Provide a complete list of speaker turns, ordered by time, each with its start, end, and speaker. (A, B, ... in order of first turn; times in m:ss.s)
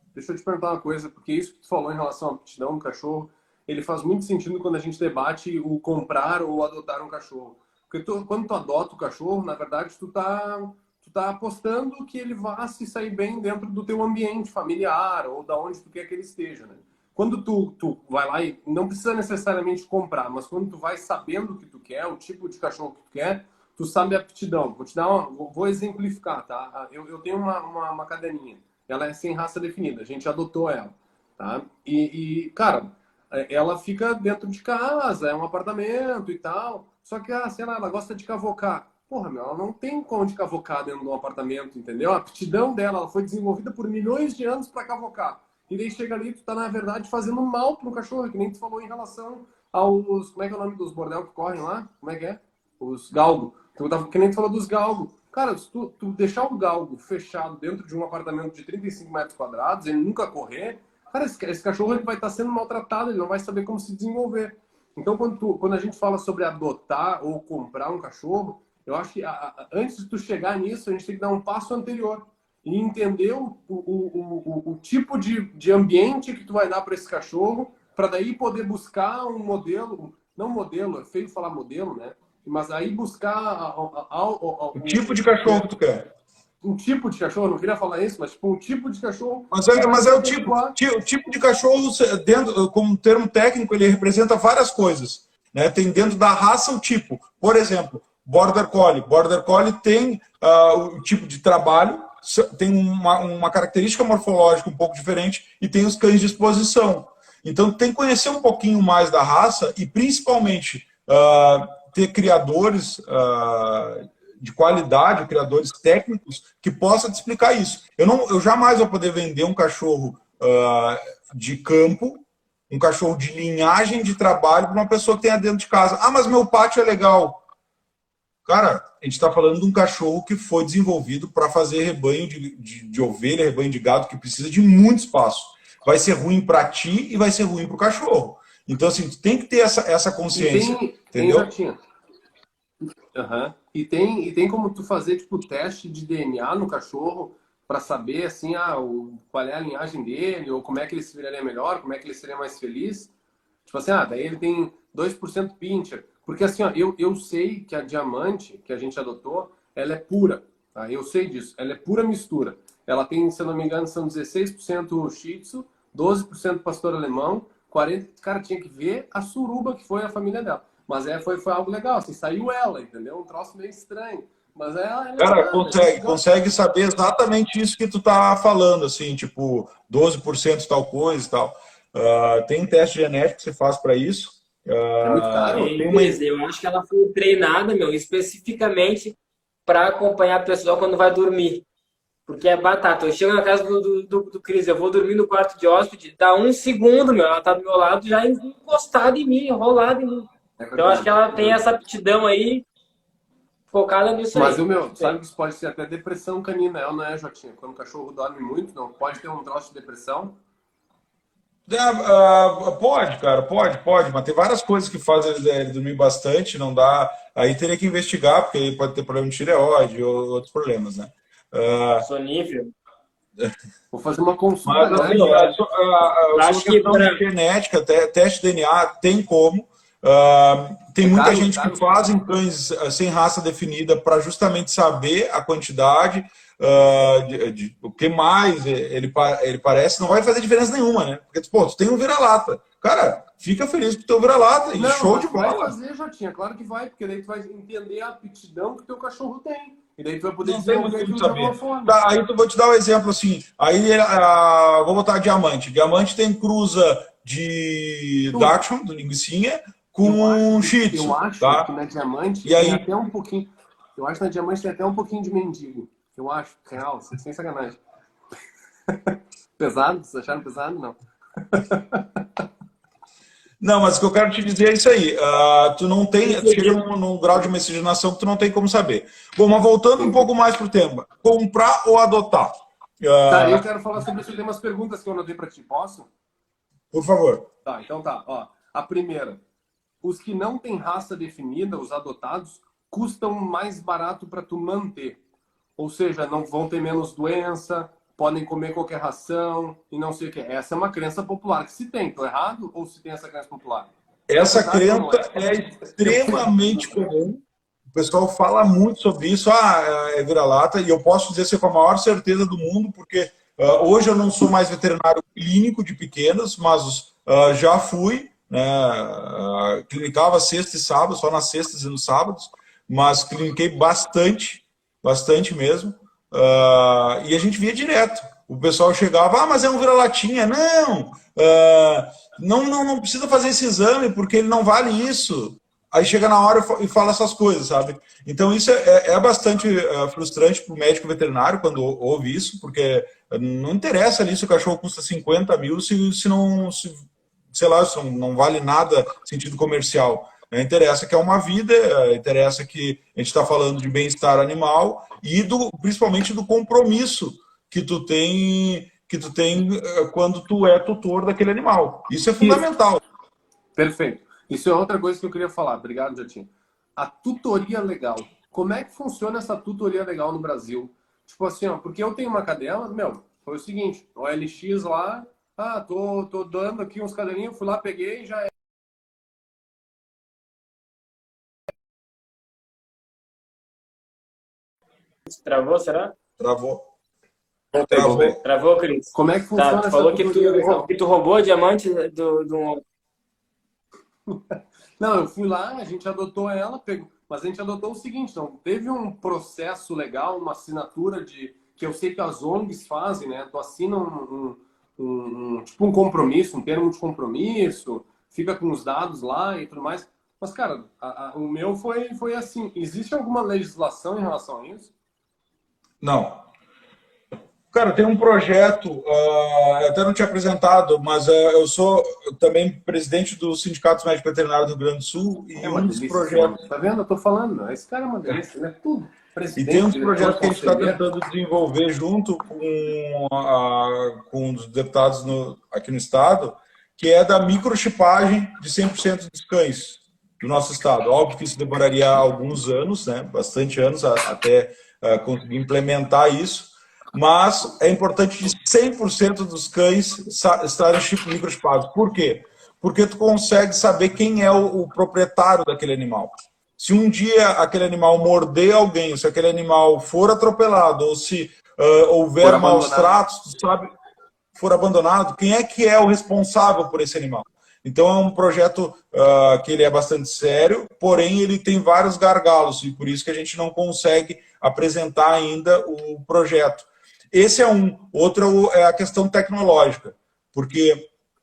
0:00.2-1:25.7 A
1:24.8-1:26.1 B
1:26.6-1:30.8 A
1:29.5-2:07.4 B
2:08.5-2:21.5 B
2:20.3-2:21.8 A
2:23.1-2:33.1 A
2:33.7-2:56.2 A
2:55.2-3:06.2 B
3:05.0-3:05.9 A
3:05.5-3:11.6 C
3:12.3-3:22.6 C
3:20.6-3:21.6 A
3:23.7-3:25.1 C
3:24.3-3:30.4 A
3:31.7-3:42.1 B
3:42.0-3:42.7 C
3:43.9-3:45.5 A
3:44.7-4:05.8 B
3:44.8-3:45.4 C
3:46.3-3:47.2 C
3:51.0-3:52.0 A
4:04.7-4:12.0 A
4:10.4-4:21.7 B
4:20.0-4:27.8 A
4:22.4-4:22.8 B
4:28.9-4:32.4 A
4:33.6-4:43.6 B
4:36.2-4:36.8 C
4:40.0-4:40.2 A
4:43.3-4:46.1 A
4:46.9-4:47.5 B
4:47.6-4:49.4 A
4:50.0-4:55.2 A
4:55.8-5:06.5 A
5:04.3-6:03.0 B
6:02.4-6:02.6 A
6:03.8-6:18.5 A
6:25.3-6:26.1 C
6:26.4-6:26.8 B
6:27.7-6:28.4 A
6:27.9-6:28.4 B
6:28.4-6:32.8 C
6:29.1-6:30.9 A
6:34.3-6:54.9 A
6:56.0-6:56.5 B
6:57.7-7:06.6 B
7:05.6-7:11.0 A
7:09.6-7:43.9 B
7:42.4-7:43.2 A
7:44.6-8:01.1 B